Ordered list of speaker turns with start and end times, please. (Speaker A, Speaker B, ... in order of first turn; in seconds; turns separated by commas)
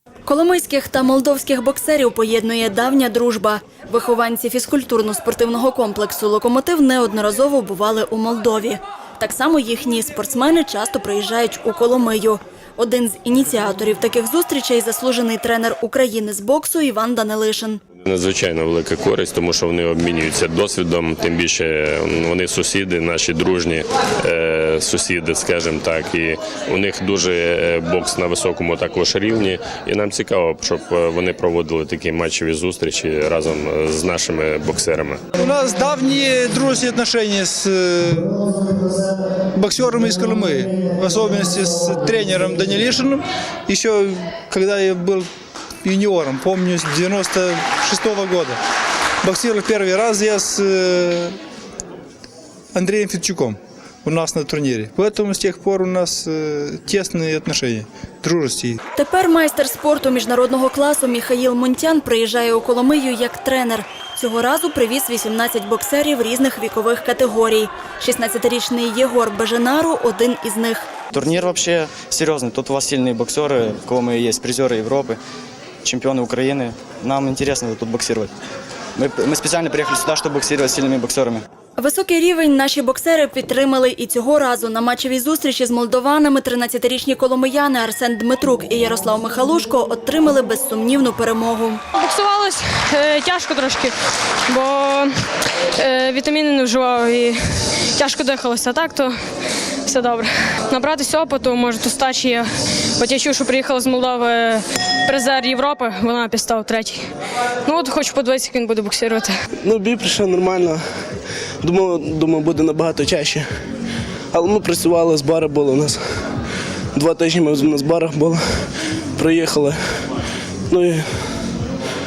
Speaker A: 0.3-17.8, Speaker B: 18.0-35.2, Speaker C: 35.4-38.4, Speaker C: 39.5-45.3, Speaker C: 45.8-48.6, Speaker C: 49.2-51.4, Speaker C: 52.8-58.8, Speaker A: 59.0-70.9, Speaker D: 71.1-75.2, Speaker D: 75.8-78.3, Speaker D: 79.0-81.5, Speaker A: 81.8-91.8, Speaker E: 92.0-93.9, Speaker E: 94.5-95.2, Speaker E: 95.8-97.4, Speaker E: 98.0-99.1, Speaker E: 99.9-107.1, Speaker E: 107.7-109.3, Speaker F: 109.6-110.8, Speaker F: 111.6-113.5, Speaker F: 114.3-116.0, Speaker F: 117.0-118.4, Speaker F: 119.2-120.0, Speaker F: 120.7-121.1